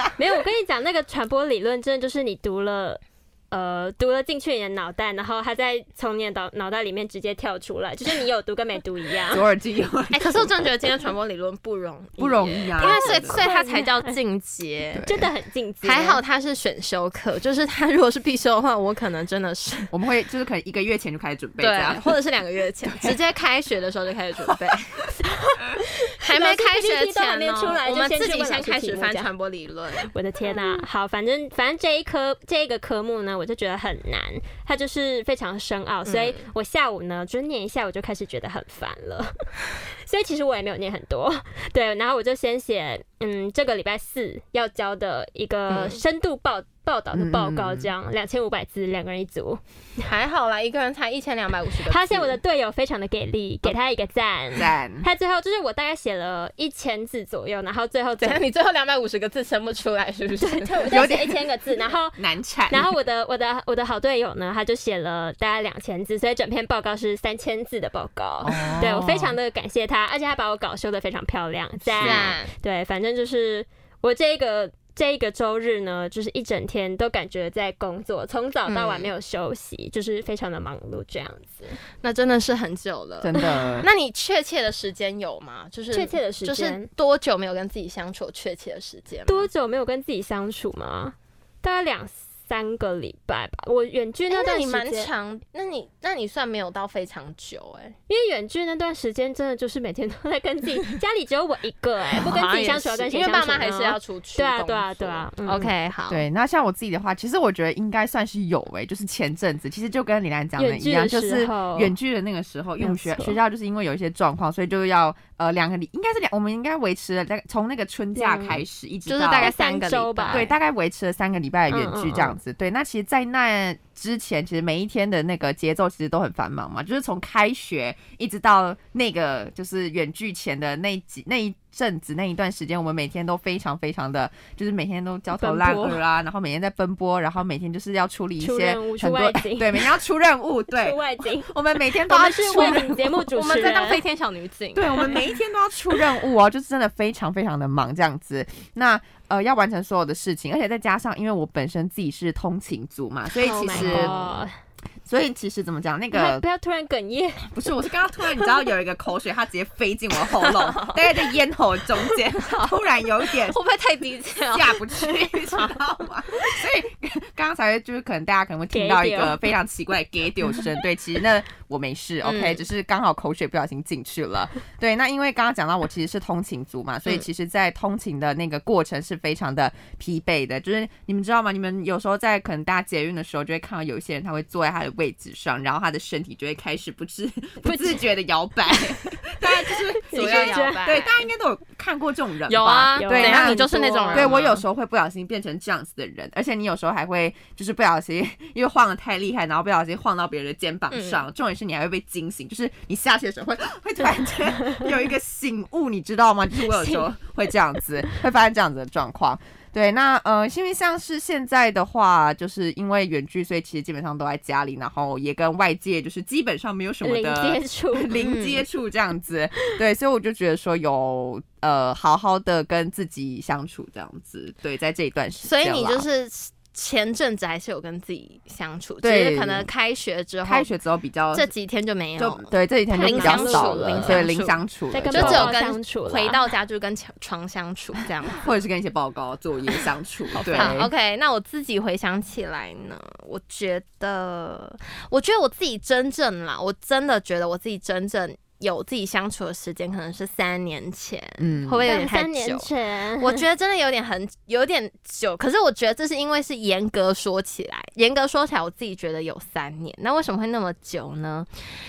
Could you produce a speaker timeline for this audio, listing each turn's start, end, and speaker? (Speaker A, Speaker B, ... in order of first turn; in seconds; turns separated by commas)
Speaker A: 0.2-9.5, Speaker B: 9.3-10.7, Speaker C: 10.1-15.0, Speaker B: 12.2-13.4, Speaker A: 12.8-14.2, Speaker B: 14.9-15.3, Speaker A: 15.0-16.2, Speaker C: 15.8-19.9, Speaker B: 19.9-22.1, Speaker C: 21.6-25.0, Speaker A: 25.2-29.3, Speaker C: 26.2-30.9, Speaker A: 30.1-39.3, Speaker C: 36.0-36.5, Speaker A: 40.1-49.6, Speaker C: 45.7-46.0, Speaker B: 47.1-47.9, Speaker C: 50.0-52.4, Speaker A: 51.9-58.4, Speaker B: 54.5-55.1, Speaker C: 58.2-61.0, Speaker A: 60.4-81.8, Speaker B: 60.9-61.4, Speaker B: 62.2-62.9, Speaker B: 68.4-69.4, Speaker B: 71.8-72.3, Speaker C: 72.0-72.5, Speaker C: 78.7-79.1, Speaker C: 82.0-89.5, Speaker B: 83.2-83.9, Speaker A: 85.9-86.9, Speaker A: 89.3-95.1, Speaker C: 94.3-98.0, Speaker A: 98.1-105.7, Speaker C: 102.2-106.2, Speaker B: 106.1-119.5, Speaker A: 110.6-111.9, Speaker A: 112.8-113.4, Speaker A: 118.2-118.6, Speaker C: 119.1-120.5, Speaker A: 119.3-120.5, Speaker B: 120.3-143.2, Speaker A: 121.7-122.4, Speaker A: 135.4-136.0, Speaker A: 138.4-139.9, Speaker A: 140.8-141.5, Speaker A: 142.1-144.0, Speaker C: 142.5-145.2, Speaker B: 144.8-154.1, Speaker C: 153.4-154.3, Speaker A: 153.4-154.5, Speaker B: 155.1-156.4, Speaker A: 156.1-157.5, Speaker B: 157.6-163.6, Speaker C: 160.4-161.0, Speaker C: 163.4-164.9, Speaker B: 164.5-226.1, Speaker C: 165.5-165.8, Speaker A: 168.7-169.4, Speaker C: 172.2-172.6, Speaker A: 187.6-188.0, Speaker A: 190.1-191.1, Speaker C: 190.1-191.1, Speaker C: 192.5-194.6, Speaker A: 193.0-194.4, Speaker C: 200.9-201.2, Speaker A: 206.7-207.1, Speaker A: 217.0-218.2, Speaker C: 218.2-218.6, Speaker C: 225.4-230.7, Speaker B: 229.0-229.7, Speaker B: 230.4-231.5, Speaker C: 231.3-234.6, Speaker B: 232.2-235.5, Speaker A: 232.9-234.3, Speaker A: 234.9-236.4, Speaker C: 235.1-238.5, Speaker B: 238.3-240.9, Speaker A: 240.3-240.9, Speaker C: 240.5-261.5, Speaker B: 251.4-251.9, Speaker A: 251.9-253.4